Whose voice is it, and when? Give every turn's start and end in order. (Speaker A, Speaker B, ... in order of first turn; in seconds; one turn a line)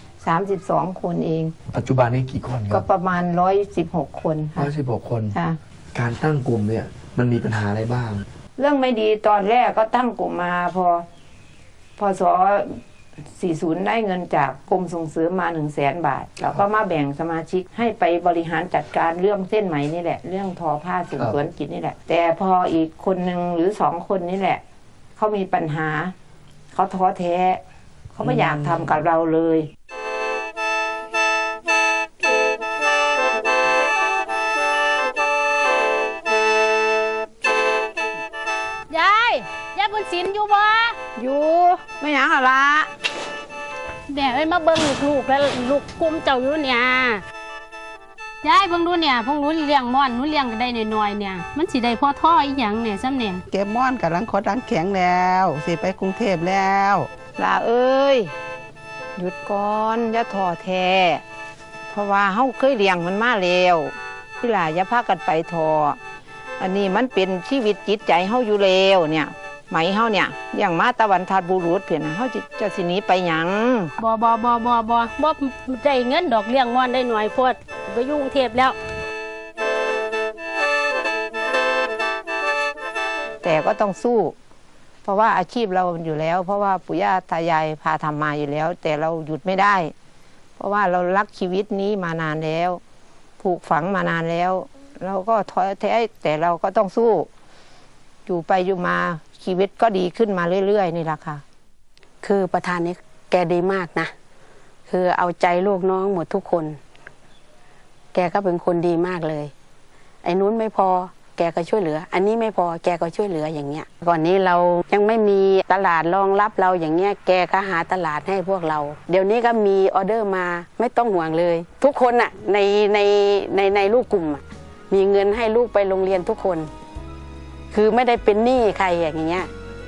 Speaker A: 0.2-1.5
Speaker B: 1.7-2.9
Speaker A: 2.7-4.7
Speaker B: 4.6-5.4
Speaker A: 5.3-5.6
Speaker B: 5.9-8.3
Speaker A: 8.6-11.1
Speaker A: 12.0-12.8
Speaker A: 13.4-24.6
Speaker A: 25.2-26.1
Speaker A: 26.7-27.6
Speaker A: 28.1-29.7
Speaker B: 28.2-29.0
Speaker C: 38.9-41.0
Speaker A: 41.2-42.9
Speaker C: 44.1-47.2
Speaker C: 48.4-53.4
Speaker D: 53.5-57.1
Speaker A: 57.4-58.3
Speaker A: 59.2-61.2
Speaker A: 61.9-66.0
Speaker A: 66.6-73.9
Speaker C: 74.0-78.8
Speaker A: 83.4-84.3
Speaker A: 85.0-89.9
Speaker A: 90.6-92.8
Speaker A: 93.4-97.3
Speaker A: 98.3-101.4
Speaker E: 102.2-104.1
Speaker E: 104.9-106.8
Speaker E: 108.1-109.5
Speaker E: 110.2-126.7
Speaker E: 127.7-129.5